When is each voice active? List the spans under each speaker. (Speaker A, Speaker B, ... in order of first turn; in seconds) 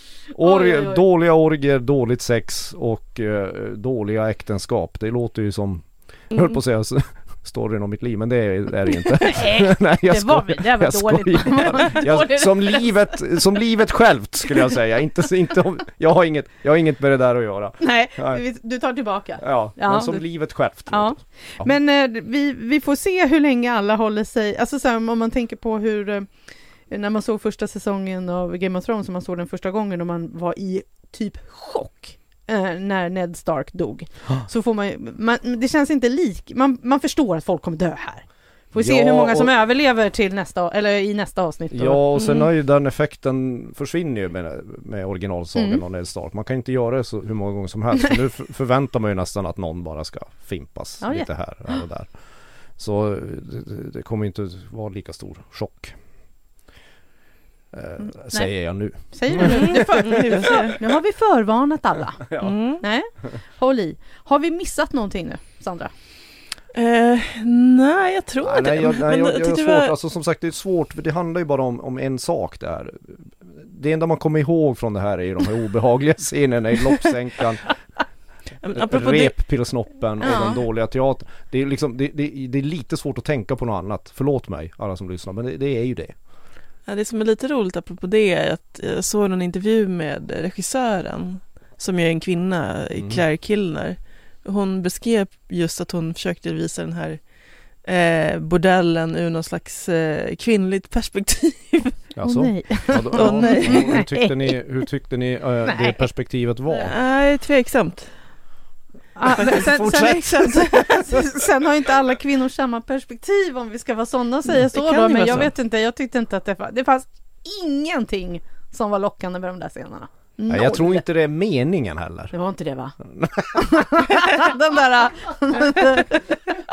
Speaker A: 0.3-18.4, 19.4-21.7, 38.8-39.5, 41.7-56.0, 57.7-60.6, 62.3-62.6, 68.4-77.8, 78.7-86.2, 93.0-93.2, 102.2-106.9, 120.5-122.3, 123.0-123.8
Speaker B: 0.4-1.0, 9.3-13.2, 17.8-42.1, 45.6-45.8, 51.0-51.3, 58.0-65.9, 80.2-80.6, 102.2-104.6, 105.7-106.0, 109.2-121.0, 122.3-123.0, 123.5-126.5
Speaker C: 6.3-6.6, 42.2-42.5, 59.4-60.8, 62.4-62.8, 66.7-70.0, 78.6-79.8, 86.9-102.0, 103.1-103.9, 106.8-108.2, 109.4-110.9, 114.6-115.5